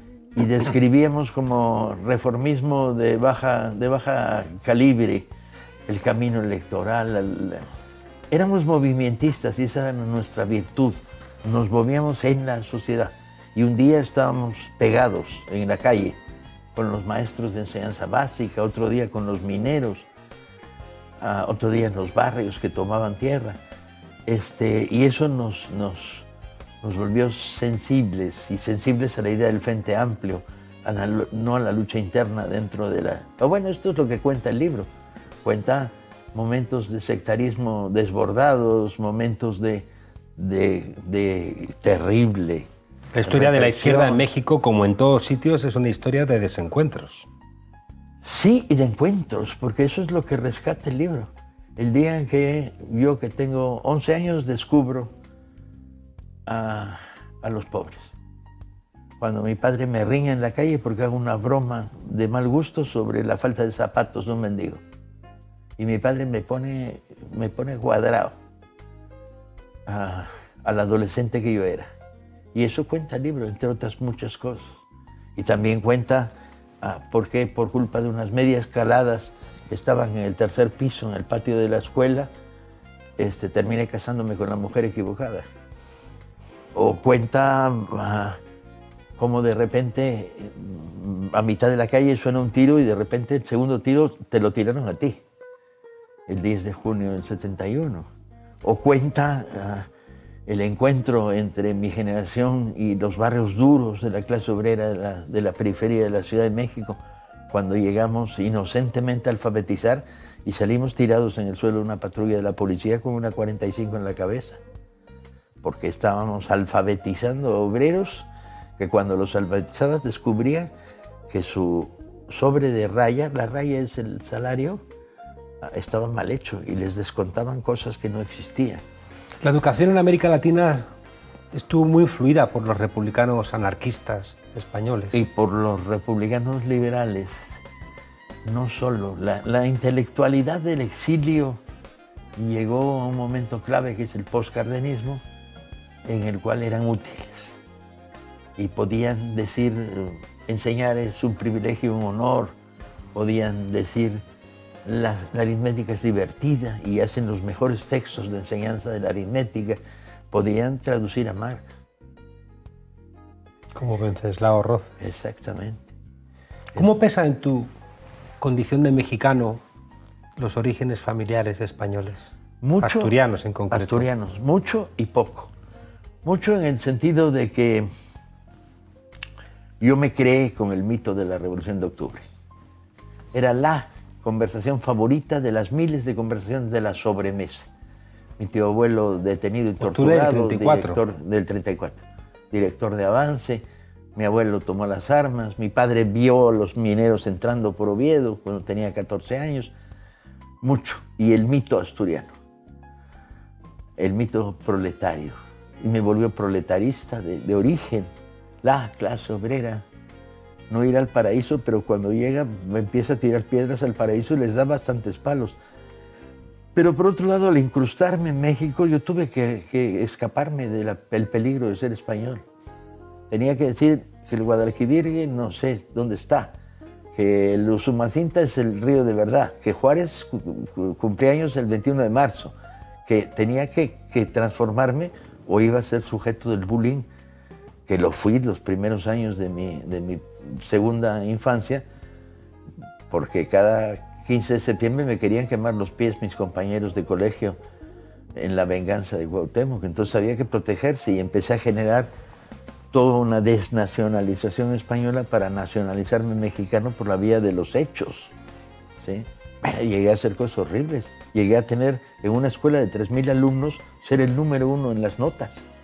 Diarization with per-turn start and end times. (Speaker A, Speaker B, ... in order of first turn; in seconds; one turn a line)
Speaker A: 0.3-5.3
Speaker A: 5.9-7.7
Speaker A: 8.3-16.2
Speaker A: 16.8-20.1
Speaker A: 21.2-23.6
Speaker A: 24.3-26.3
Speaker A: 26.8-34.9
Speaker A: 35.4-42.7
Speaker B: 43.1-47.3
Speaker A: 43.2-44.2
Speaker A: 48.2-55.1
Speaker A: 56.5-58.1
Speaker A: 59.2-64.8
Speaker A: 65.8-68.3
Speaker A: 69.9-71.9
Speaker A: 72.5-74.8
Speaker A: 75.4-82.3
Speaker A: 83.2-85.5
Speaker A: 86.7-88.4
Speaker A: 89.2-95.2
Speaker A: 96.3-98.1
Speaker A: 98.6-99.9
Speaker A: 100.5-114.6
Speaker A: 115.6-120.7
Speaker A: 121.3-124.8
Speaker A: 125.6-128.8
Speaker B: 129.4-130.9
Speaker B: 131.5-135.2
Speaker A: 135.1-137.6
Speaker A: 138.4-141.6
Speaker A: 142.4-145.2
Speaker A: 146.1-147.6
Speaker A: 148.6-152.6
Speaker A: 153.1-154.2
Speaker A: 154.8-159.8
Speaker A: 160.3-161.7
Speaker B: 163.8-165.0
Speaker A: 165.0-165.9
Speaker B: 166.8-167.7
Speaker B: 168.4-169.6
Speaker B: 170.4-174.1
Speaker A: 172.6-173.1
Speaker A: 173.7-175.5
Speaker A: 176.2-177.9
Speaker A: 179.8-182.2
Speaker A: 183.3-187.7
Speaker A: 188.4-193.6
Speaker B: 189.8-191.0
Speaker A: 194.2-199.7
Speaker A: 200.6-202.3
Speaker A: 204.0-208.1
Speaker A: 208.6-209.8
Speaker A: 210.7-215.6
Speaker A: 216.8-222.4
Speaker A: 223.3-226.5
Speaker A: 227.2-232.5
Speaker A: 233.1-237.1
Speaker A: 237.9-241.8
Speaker A: 243.1-247.6
Speaker A: 248.3-252.1
Speaker A: 252.9-258.4
Speaker A: 259.0-265.6